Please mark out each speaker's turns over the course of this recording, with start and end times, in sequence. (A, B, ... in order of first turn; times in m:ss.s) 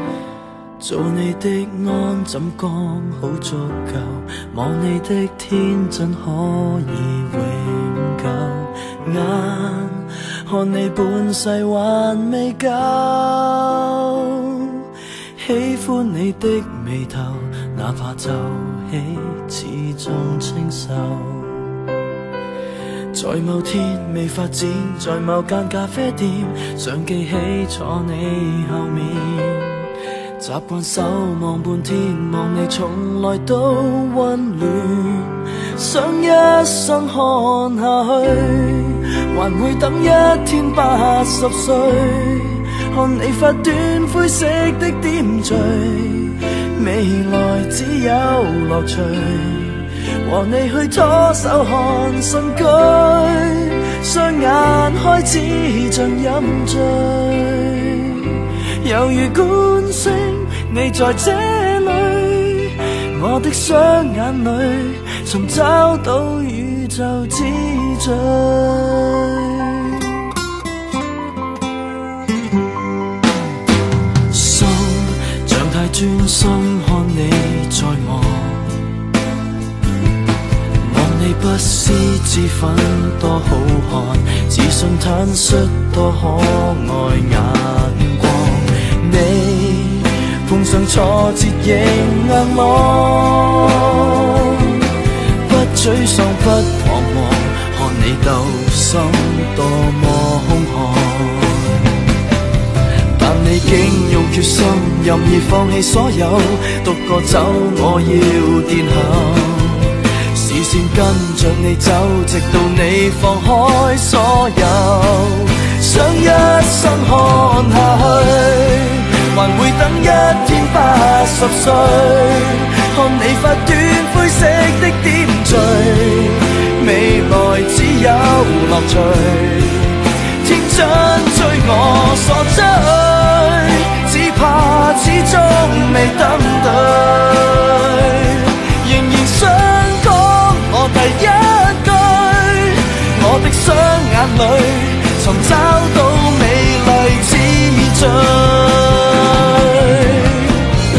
0:00.8-0:14.8 A
0:15.4-0:21.7 A
0:23.1-0:29.9 A
0:30.4-1:10.1 A
1:14.3-1:18.8 A
1:20.8-1:34.8 A
1:35.4-1:41.9 A
1:43.2-2:30.6 A